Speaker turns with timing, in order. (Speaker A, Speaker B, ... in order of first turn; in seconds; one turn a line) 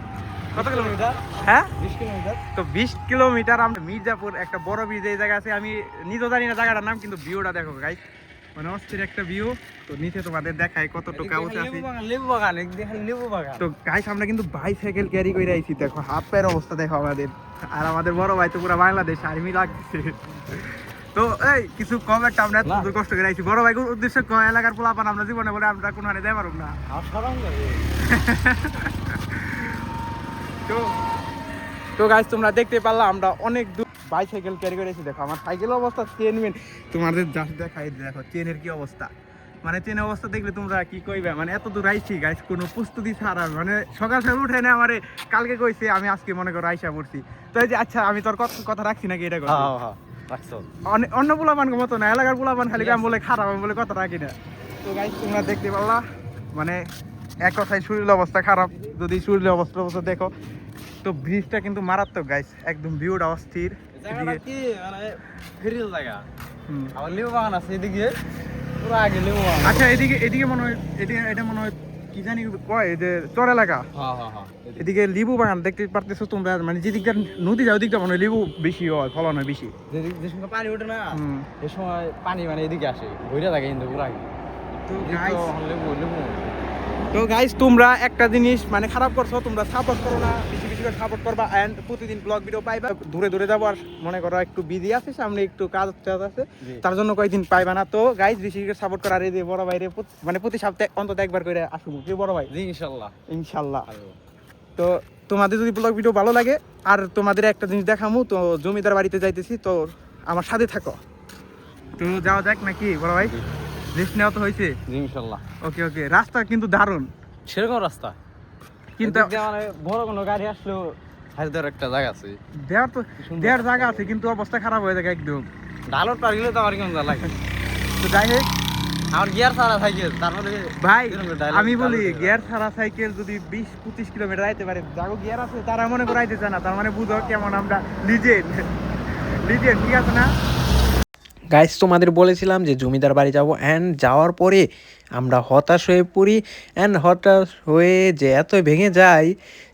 Speaker A: 0.5-1.2
Speaker B: 0.6-1.7
Speaker A: 1.8-2.4
Speaker B: 2.5-8.0
Speaker B: 8.6-11.8
Speaker A: 11.1-13.7
Speaker B: 13.6-26.8
Speaker A: 22.6-22.9
Speaker A: 26.9-27.8
Speaker B: 28.0-29.7
Speaker B: 31.9-39.1
Speaker B: 39.6-49.7
Speaker A: 49.5-50.7
Speaker B: 50.9-56.0
Speaker A: 52.7-53.1
Speaker B: 56.5-56.8
Speaker B: 57.4-60.3
Speaker B: 61.0-64.4
Speaker A: 64.0-66.2
Speaker B: 66.7-66.9
Speaker A: 67.0-68.2
Speaker A: 68.8-69.8
Speaker B: 69.6-73.8
Speaker A: 73.9-74.9
Speaker B: 74.8-79.7
Speaker A: 79.9-84.3
Speaker B: 81.1-81.5
Speaker B: 84.9-85.5
Speaker A: 84.9-86.7
Speaker B: 87.1-102.5
Speaker A: 102.5-103.1
Speaker B: 103.3-103.8
Speaker A: 103.9-104.2
Speaker B: 104.8-111.0
Speaker B: 112.0-113.3
Speaker A: 113.2-113.6
Speaker B: 113.9-114.8
Speaker A: 114.9-115.4
Speaker B: 115.6-117.1
Speaker A: 117.5-118.2
Speaker B: 119.0-119.4
Speaker A: 119.0-122.4
Speaker B: 122.7-125.5
Speaker A: 123.2-124.1
Speaker A: 125.9-127.4
Speaker B: 128.0-128.5
Speaker A: 129.1-132.5
Speaker B: 130.8-138.7
Speaker B: 139.4-140.3
Speaker C: 141.5-144.6
Speaker C: 145.2-149.3